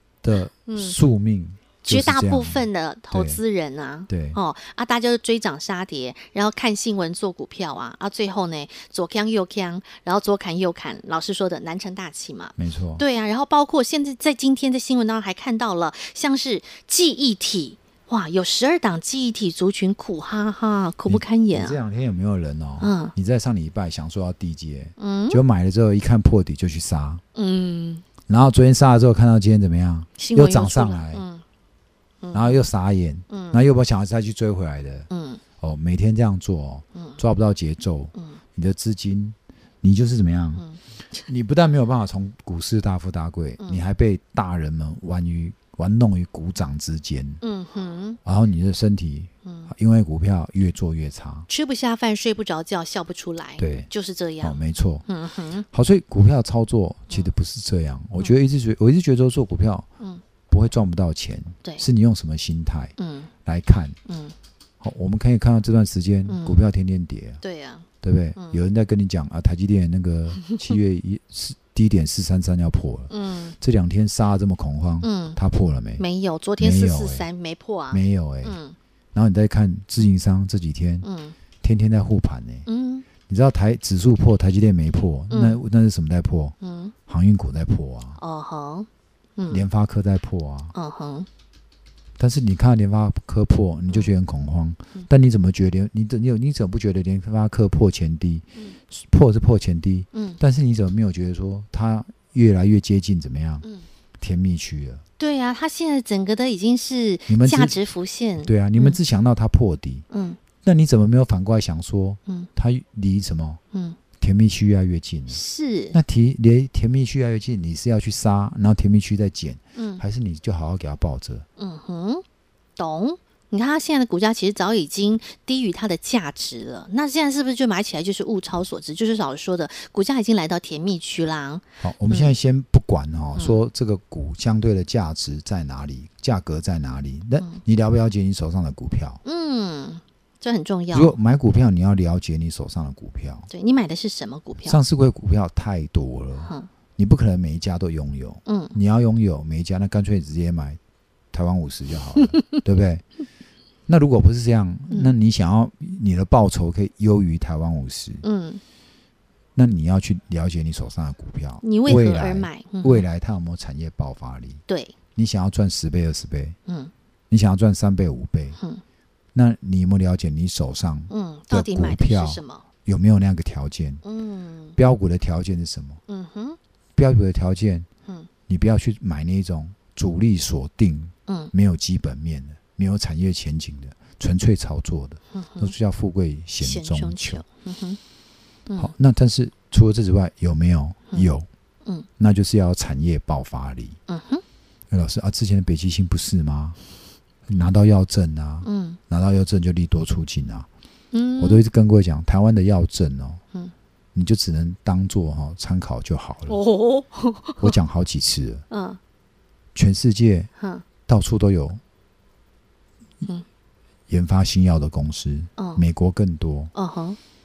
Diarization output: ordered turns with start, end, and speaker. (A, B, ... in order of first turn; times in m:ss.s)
0:00.2-0:03.4 A
0:00.6-0:01.0 B
0:01.8-0:21.8 B
0:04.1-0:04.4 A
0:12.6-0:13.0 A
0:21.1-0:27.2 A
0:22.8-0:23.1 B
0:25.0-0:25.4 B
0:27.3-0:28.0 B
0:28.3-0:31.2 A
0:30.2-0:31.4 B
0:32.2-0:32.6 B
0:32.3-0:35.1 A
0:33.3-0:33.6 B
0:35.1-0:35.4 B
0:35.6-0:40.6 A
0:41.2-0:47.4 A
0:47.4-0:48.2 B
0:48.2-0:51.5 A
0:51.5-0:55.6 B
0:53.6-0:53.9 A
0:54.4-0:55.0 A
0:55.7-0:59.9 A
1:00.5-1:04.0 A
1:03.0-1:03.3 B
1:04.1-1:04.3 B
1:04.8-1:07.4 A
1:06.3-1:06.6 B
1:07.4-1:08.6 B
1:08.0-1:16.0 A
1:13.1-1:13.5 B
1:15.0-1:15.4 B
1:16.0-1:18.7 B
1:16.6-1:17.3 A
1:17.9-1:18.6 A
1:19.1-1:21.1 A
1:21.0-1:21.4 B
1:21.6-1:22.6 A
1:22.6-1:23.0 B
1:23.2-1:28.2 A
1:25.3-1:25.6 B
1:26.6-1:26.9 B
1:28.2-1:29.6 B
1:29.5-1:30.7 A
1:30.7-1:31.3 B
1:32.2-1:43.6 A
1:40.1-1:40.4 B
1:44.2-1:45.0 A
1:45.2-1:49.0 B
1:47.3-1:47.8 A
1:48.4-1:50.0 A
1:50.1-1:50.4 B
1:50.6-1:53.6 A
1:53.7-1:54.0 B
1:54.2-1:55.4 A
1:55.3-1:56.0 B
1:55.9-2:01.4 A
1:59.8-2:00.0 B
2:01.6-2:02.2 B
2:02.8-2:12.3 B
2:11.8-2:19.2 A
2:19.2-2:21.1 B
2:20.9-2:23.5 A
2:23.5-2:24.8 B
2:24.6-2:30.8 A
2:28.4-2:28.7 B
2:31.3-2:33.0 A
2:33.9-2:38.2 A
2:38.2-2:38.6 B
2:39.6-2:44.6 A
2:41.6-2:43.0 B
2:44.7-2:44.9 B
2:45.1-2:46.6 A
2:47.3-2:48.6 A
2:49.3-2:54.0 A
2:51.1-2:52.6 B
2:54.0-2:54.8 B
2:54.8-2:56.0 A
2:56.1-2:56.6 B
2:57.0-2:57.9 A
2:58.5-3:07.4 A
3:01.3-3:01.5 B
3:05.3-3:05.7 B
3:06.6-3:08.0 B
3:08.8-3:11.5 A
3:12.2-3:14.0 A
3:14.1-3:14.4 B
3:14.9-3:16.8 A
3:17.5-3:20.7 A
3:18.6-3:19.0 B
3:21.1-3:21.6 B
3:21.4-3:23.4 A
3:24.1-3:26.6 A
3:26.5-3:27.7 B
3:27.6-3:28.6 A
3:28.7-3:29.0 B
3:29.7-3:30.5 A
3:30.6-3:30.8 B
3:31.0-3:31.8 A
3:34.1-3:36.7 A
3:35.6-3:35.8 B
3:36.7-3:37.2 B